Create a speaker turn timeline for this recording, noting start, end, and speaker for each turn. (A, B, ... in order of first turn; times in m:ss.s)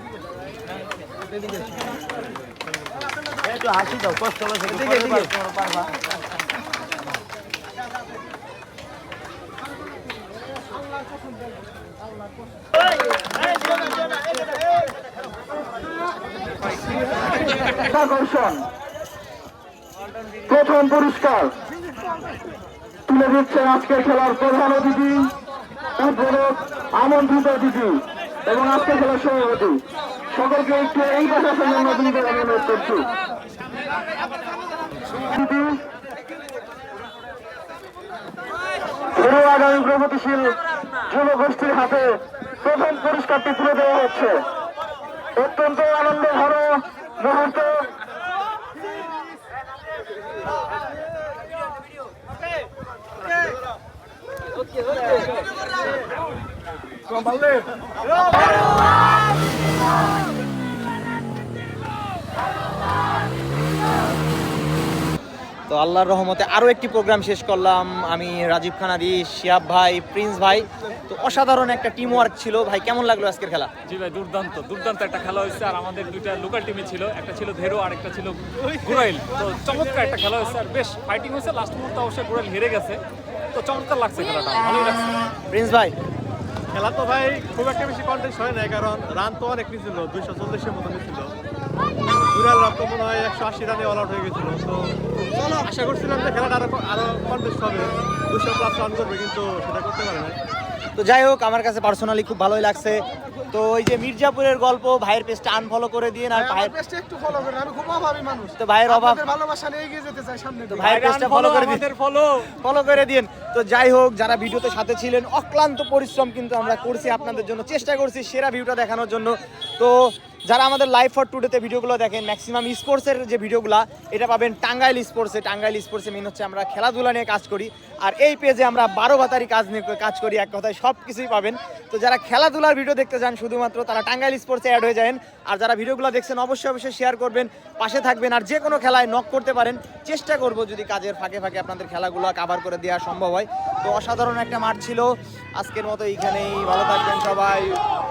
0:03.5-0:05.8 A
0:17.7-0:18.6 B
0:20.5-0:21.5 B
0:23.1-0:25.3 B
0:26.0-0:33.1 B
0:35.2-0:35.8 B
0:39.2-0:44.4 B
0:45.4-0:47.9 B
1:05.7-1:13.7 A
1:13.9-1:23.0 C
1:18.6-1:19.1 D
1:23.5-1:25.1 C
1:25.5-1:25.9 A
1:26.7-1:31.3 D
1:32.3-1:40.4 D
1:41.0-1:46.8 A
1:46.3-1:51.8 E
1:48.6-1:49.2 A
1:50.7-1:51.9 A
1:52.5-2:27.8 A